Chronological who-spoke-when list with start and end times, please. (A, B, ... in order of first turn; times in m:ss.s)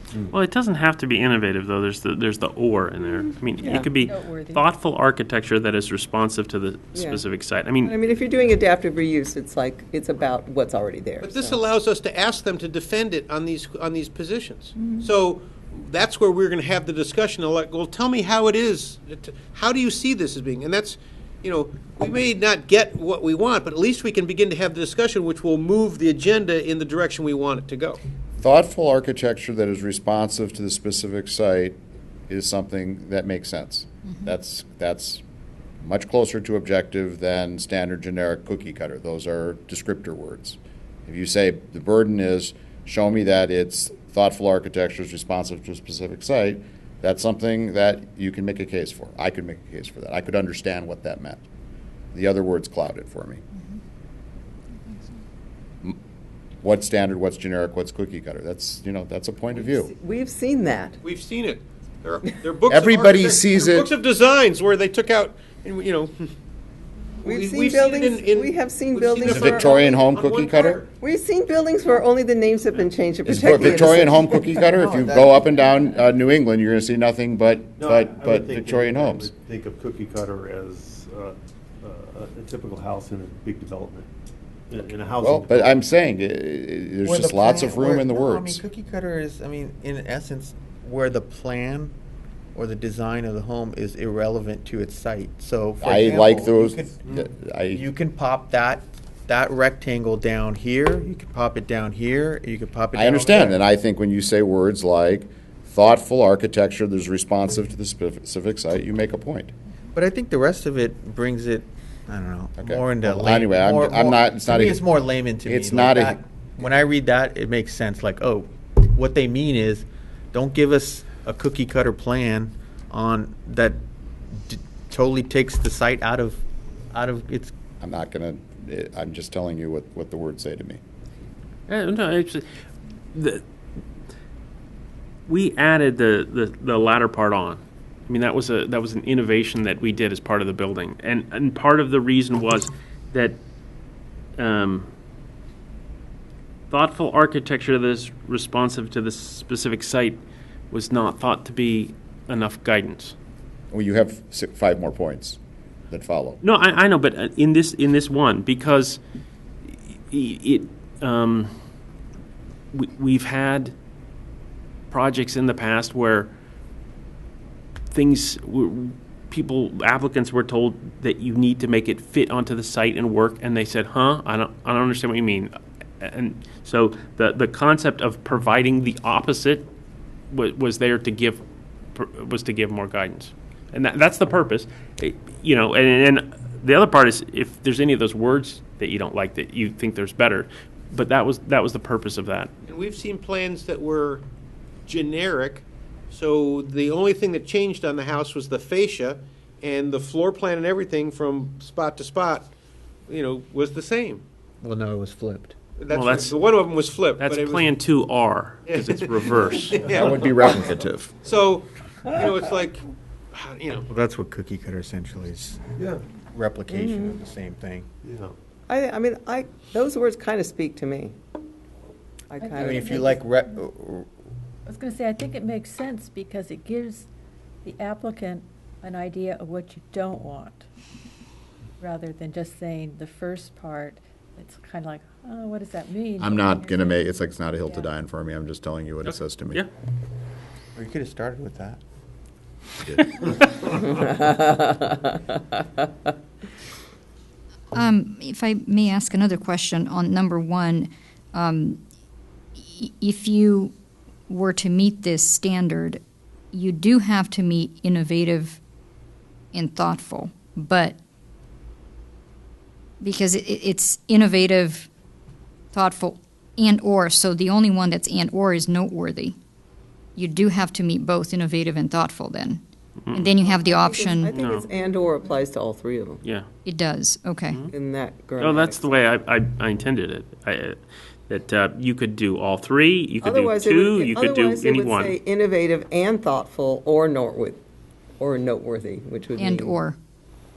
0:00.3-0:08.0 A
0:03.6-0:03.9 B
0:04.0-0:04.7 C
0:06.9-0:07.2 B
0:07.8-0:11.6 B
0:11.2-0:28.0 D
0:14.8-0:15.0 B
0:28.4-0:31.8 E
0:32.3-0:35.2 E
0:35.8-0:51.4 E
0:52.1-0:53.4 E
0:56.6-0:59.9 E
0:59.5-1:01.0 B
1:01.0-1:06.3 D
1:02.7-1:03.9 E
1:07.2-1:10.9 D
1:07.2-1:10.0 B
1:09.2-1:10.8 E
1:11.0-1:14.5 B
1:13.2-1:19.3 E
1:14.7-1:15.4 F
1:17.8-1:24.1 G
1:24.7-1:25.8 G
1:25.2-1:28.6 E
1:27.0-1:31.9 F
1:32.5-1:37.2 F
1:35.8-1:37.8 E
1:37.7-1:43.6 F
1:42.9-1:49.5 E
1:49.9-2:03.8 F
1:52.6-1:54.8 E
1:55.4-1:56.2 E
2:04.3-2:06.4 F
2:06.9-2:07.5 F
2:07.8-2:10.8 E
2:11.7-2:12.4 A
2:13.1-2:13.4 A
2:15.3-2:23.4 A
2:24.4-2:24.9 A
2:26.7-2:30.2 A
2:30.7-2:33.1 A
2:33.7-2:35.4 E
2:35.9-2:36.4 E
2:36.4-2:39.0 A
2:40.1-2:41.5 A
2:42.7-2:43.7 A
2:44.9-2:46.3 A
2:47.9-2:59.6 A
3:00.3-3:01.4 A
3:01.9-3:12.5 A
3:12.7-3:14.2 D
3:14.8-3:22.5 D
3:23.1-3:24.2 D
3:24.6-3:25.6 F
3:25.8-3:27.7 D
3:25.9-3:26.3 A
3:27.2-3:29.8 A
3:28.7-3:33.9 D
3:29.9-3:31.1 E
3:33.9-3:35.6 F
3:35.8-3:36.0 G
3:36.3-3:37.8 F
3:36.7-3:37.2 B
3:38.0-3:38.3 G
3:38.7-3:41.1 B
3:42.3-3:43.2 B
3:42.4-3:43.1 C
3:42.6-3:44.1 F
3:44.7-3:47.1 C
3:47.6-3:50.6 C
3:51.8-3:57.9 C
3:56.2-3:59.6 E
3:59.1-3:59.7 A
4:00.7-4:01.8 F
4:03.7-4:05.0 B
4:07.7-4:11.8 H
4:12.6-4:13.7 H
4:14.3-4:16.0 H
4:16.5-4:18.6 H
4:19.5-4:21.0 H
4:23.0-4:24.9 H
4:25.7-4:29.4 H
4:30.2-4:32.6 H
4:33.1-4:34.4 H
4:33.4-4:36.2 B
4:34.3-4:34.6 A
4:36.6-4:37.7 H
4:37.7-4:38.9 B
4:38.4-4:45.2 A
4:43.2-4:47.6 B
4:48.2-4:49.8 B
4:49.4-4:50.0 H